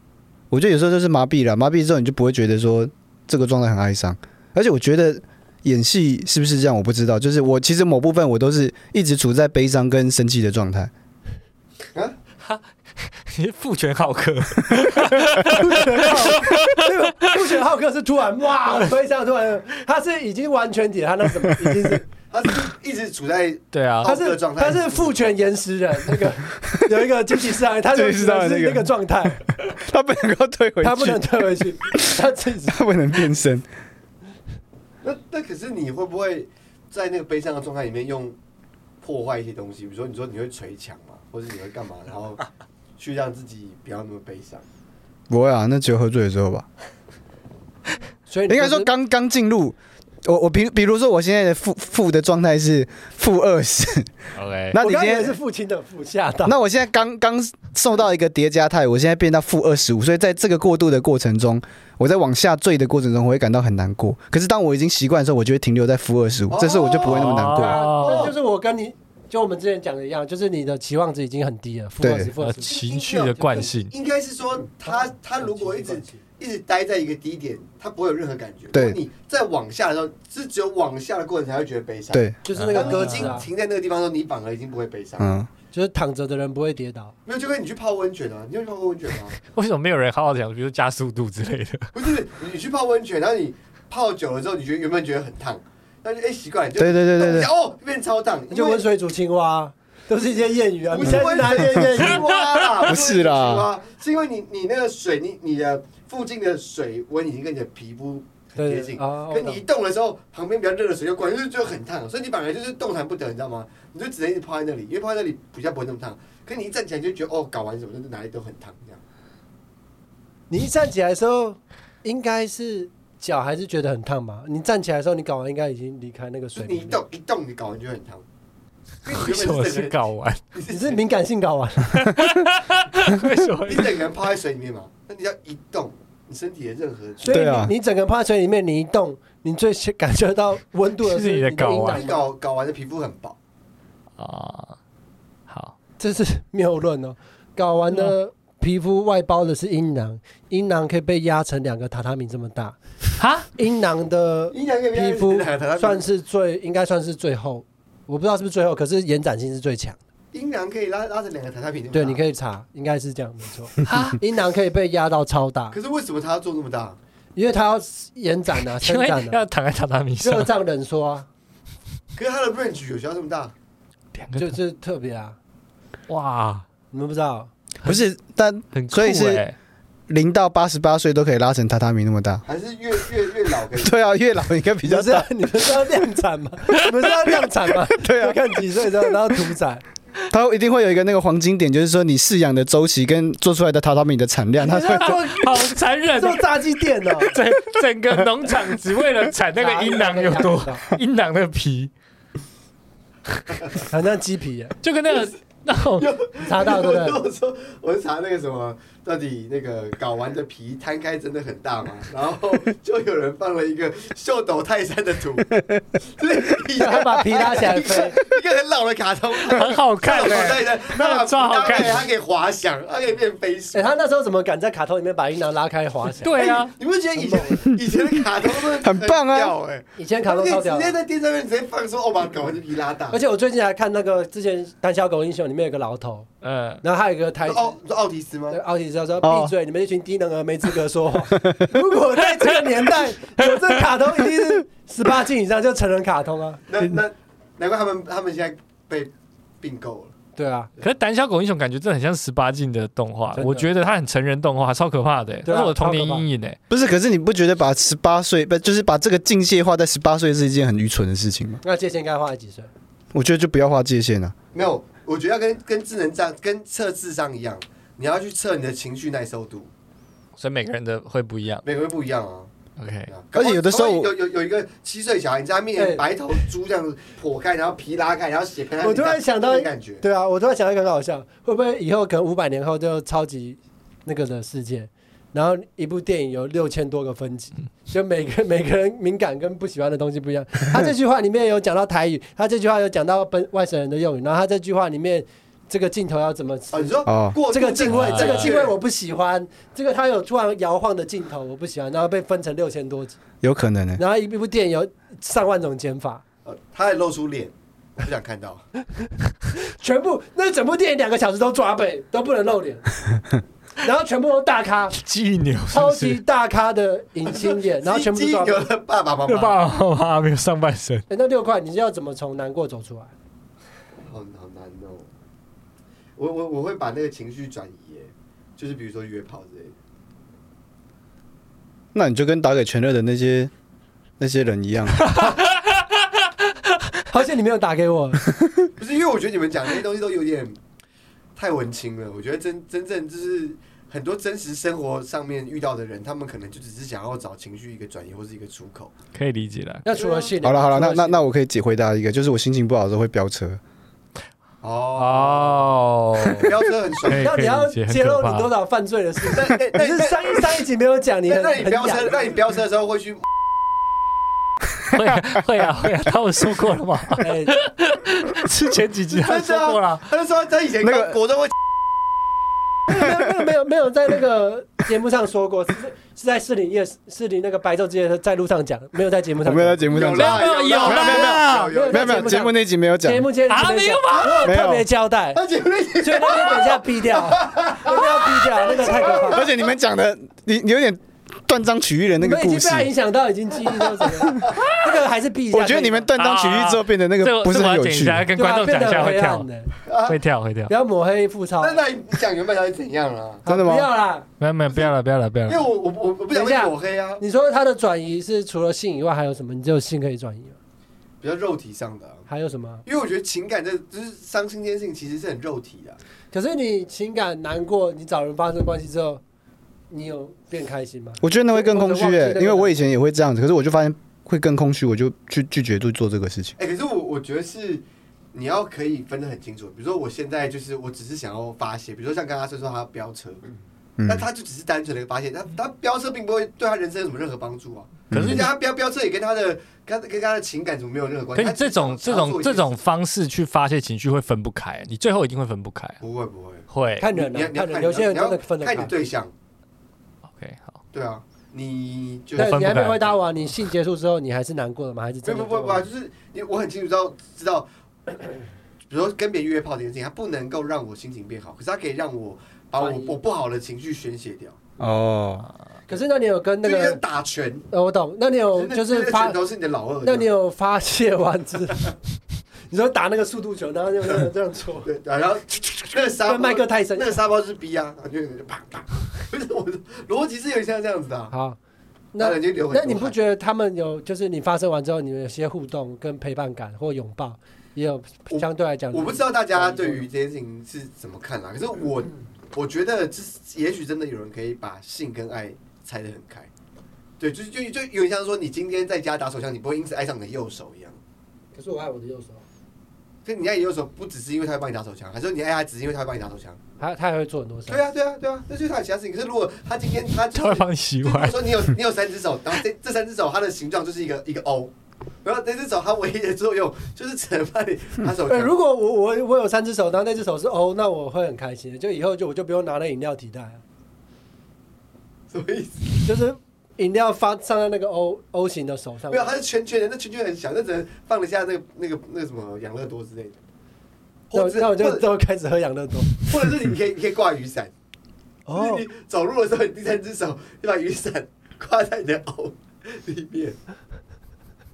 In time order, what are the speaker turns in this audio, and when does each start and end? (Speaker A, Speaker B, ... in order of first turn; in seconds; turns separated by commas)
Speaker A: 0.5-10.9, Speaker B: 13.3-16.9, Speaker C: 15.4-22.1, Speaker D: 22.3-25.3, Speaker B: 23.7-24.1, Speaker C: 24.0-29.4, Speaker A: 27.9-28.9, Speaker A: 29.5-31.4, Speaker C: 30.8-32.8, Speaker A: 32.7-33.7, Speaker D: 35.0-38.4, Speaker D: 39.0-42.4, Speaker D: 43.0-44.6, Speaker A: 45.3-46.7, Speaker C: 48.3-48.9, Speaker A: 48.5-54.1, Speaker B: 54.4-54.8, Speaker A: 54.7-55.4, Speaker C: 54.8-56.5, Speaker A: 56.5-67.8, Speaker D: 66.5-68.3, Speaker B: 67.0-68.3, Speaker C: 67.5-72.7, Speaker A: 72.0-72.3, Speaker B: 72.4-73.9, Speaker D: 72.6-85.3, Speaker C: 74.8-76.2, Speaker A: 78.7-79.0, Speaker A: 82.1-82.4, Speaker C: 82.5-83.5, Speaker B: 82.5-83.4, Speaker A: 85.2-85.5, Speaker C: 85.7-87.1, Speaker D: 87.3-89.4, Speaker B: 89.4-91.9, Speaker D: 92.0-98.8, Speaker A: 96.8-97.5, Speaker C: 98.5-102.2, Speaker D: 100.9-119.0, Speaker A: 102.8-103.7, Speaker C: 108.6-109.6, Speaker C: 120.5-127.0, Speaker D: 126.6-128.2, Speaker D: 129.1-130.0, Speaker B: 129.1-130.4, Speaker D: 130.5-131.0, Speaker C: 130.7-132.1, Speaker B: 131.9-134.0, Speaker D: 133.7-137.5, Speaker C: 137.2-142.2, Speaker A: 137.3-137.7, Speaker B: 141.0-142.1, Speaker D: 141.9-143.4, Speaker B: 144.2-144.8, Speaker B: 145.5-145.7, Speaker C: 146.0-152.8, Speaker B: 153.2-153.5, Speaker C: 153.6-160.0, Speaker D: 154.5-156.1, Speaker D: 160.3-162.2, Speaker C: 161.9-165.8, Speaker B: 163.8-164.2, Speaker D: 165.7-167.0, Speaker C: 167.4-169.4, Speaker B: 168.8-170.5, Speaker C: 170.2-171.3, Speaker D: 172.2-173.5, Speaker B: 174.2-174.6, Speaker C: 174.4-175.4, Speaker B: 176.1-176.7, Speaker C: 176.9-177.5, Speaker A: 177.8-179.4, Speaker B: 178.7-179.6, Speaker A: 180.1-182.4, Speaker D: 182.4-184.1, Speaker A: 183.8-185.3, Speaker C: 184.8-189.8, Speaker A: 187.9-188.4, Speaker A: 190.3-195.2, Speaker C: 194.6-197.3, Speaker B: 194.9-196.6, Speaker B: 197.2-201.9, Speaker C: 199.6-200.8, Speaker C: 203.8-204.8, Speaker B: 204.8-206.1, Speaker D: 205.1-223.9, Speaker C: 206.4-207.2, Speaker C: 216.8-218.2, Speaker B: 219.4-222.1, Speaker C: 223.7-226.4, Speaker B: 226.2-226.7, Speaker D: 226.4-233.2, Speaker C: 227.2-227.6, Speaker A: 228.8-229.6, Speaker C: 230.0-231.0, Speaker C: 233.1-236.3, Speaker B: 236.4-236.8, Speaker C: 236.8-237.7, Speaker D: 237.5-238.6, Speaker C: 238.5-246.6, Speaker A: 239.2-239.5, Speaker A: 241.4-241.7, Speaker B: 242.4-242.7, Speaker D: 246.7-250.2, Speaker C: 250.4-250.7, Speaker B: 250.8-256.6, Speaker C: 253.3-253.7, Speaker C: 255.4-256.3, Speaker A: 256.7-261.6, Speaker C: 261.6-262.7, Speaker A: 263.1-264.4, Speaker D: 264.5-269.7, Speaker B: 270.4-271.6, Speaker D: 271.6-272.5, Speaker B: 272.8-273.1, Speaker D: 273.1-280.0, Speaker A: 273.3-274.1, Speaker C: 275.8-276.1, Speaker C: 278.8-303.2, Speaker D: 296.7-298.8, Speaker A: 297.1-297.4, Speaker B: 297.9-298.5, Speaker A: 303.4-304.0, Speaker C: 304.0-306.2, Speaker D: 306.4-308.6, Speaker C: 309.6-312.9, Speaker C: 313.8-315.0, Speaker B: 315.0-316.2, Speaker C: 315.7-318.7, Speaker D: 317.3-319.6, Speaker B: 319.3-321.1, Speaker C: 321.1-323.1, Speaker D: 324.0-325.1, Speaker D: 326.2-329.8, Speaker A: 331.9-333.5, Speaker A: 334.2-335.1, Speaker B: 335.0-335.7, Speaker C: 337.1-338.3, Speaker D: 338.8-340.6, Speaker D: 341.4-348.9, Speaker B: 349.1-349.9, Speaker C: 349.9-351.2, Speaker D: 349.9-350.3, Speaker A: 350.4-353.6, Speaker D: 354.6-355.7, Speaker B: 355.0-358.5, Speaker D: 356.3-357.3, Speaker C: 357.1-362.4, Speaker D: 359.3-360.5, Speaker D: 361.3-363.2, Speaker B: 364.9-370.1, Speaker C: 367.2-367.6, Speaker D: 369.1-371.5, Speaker A: 370.8-371.2, Speaker C: 372.9-379.9, Speaker A: 379.4-383.3, Speaker D: 379.9-382.4, Speaker B: 380.0-381.7, Speaker C: 381.7-385.4, Speaker B: 383.5-384.5, Speaker A: 384.4-384.9, Speaker D: 385.3-389.6, Speaker C: 386.0-389.5, Speaker A: 389.3-392.9, Speaker C: 392.2-396.1, Speaker A: 395.5-398.3, Speaker B: 396.1-399.5, Speaker C: 398.4-399.7, Speaker D: 399.9-400.2, Speaker B: 400.1-400.7, Speaker C: 400.7-401.8, Speaker D: 401.6-403.4, Speaker C: 403.4-404.3, Speaker A: 403.5-403.9, Speaker B: 404.4-405.7, Speaker D: 405.5-407.2, Speaker C: 406.3-410.6, Speaker D: 411.2-412.3, Speaker C: 412.3-412.9, Speaker D: 412.9-416.0, Speaker C: 416.3-419.2, Speaker C: 419.9-422.9, Speaker A: 421.2-426.5, Speaker D: 426.6-442.7, Speaker A: 434.0-434.3, Speaker A: 438.1-438.5, Speaker B: 438.1-438.5, Speaker B: 441.4-446.0, Speaker D: 446.0-449.3, Speaker B: 446.7-447.1, Speaker C: 447.0-448.9, Speaker B: 450.4-450.8, Speaker D: 450.9-453.0, Speaker C: 452.4-455.9, Speaker B: 452.4-453.2, Speaker D: 455.3-458.2, Speaker D: 458.9-464.6, Speaker C: 462.8-463.2, Speaker A: 464.8-465.5, Speaker C: 465.9-467.0, Speaker D: 466.6-467.7, Speaker C: 467.7-469.4, Speaker D: 468.5-470.3, Speaker C: 470.0-471.9, Speaker C: 472.7-474.9, Speaker D: 474.9-481.3, Speaker C: 476.2-477.2, Speaker C: 481.3-481.6, Speaker C: 482.1-490.1, Speaker D: 482.2-483.1, Speaker D: 488.3-496.5, Speaker D: 497.2-501.0, Speaker C: 501.6-502.4, Speaker D: 503.2-506.6, Speaker C: 506.8-507.9, Speaker D: 507.7-514.7, Speaker B: 510.3-511.7, Speaker D: 515.2-518.5, Speaker C: 518.3-523.6, Speaker D: 525.3-526.1, Speaker C: 526.0-529.4, Speaker D: 529.1-533.4, Speaker D: 534.3-535.0, Speaker C: 534.3-536.5, Speaker D: 536.2-537.7, Speaker C: 538.5-538.8, Speaker D: 538.5-543.6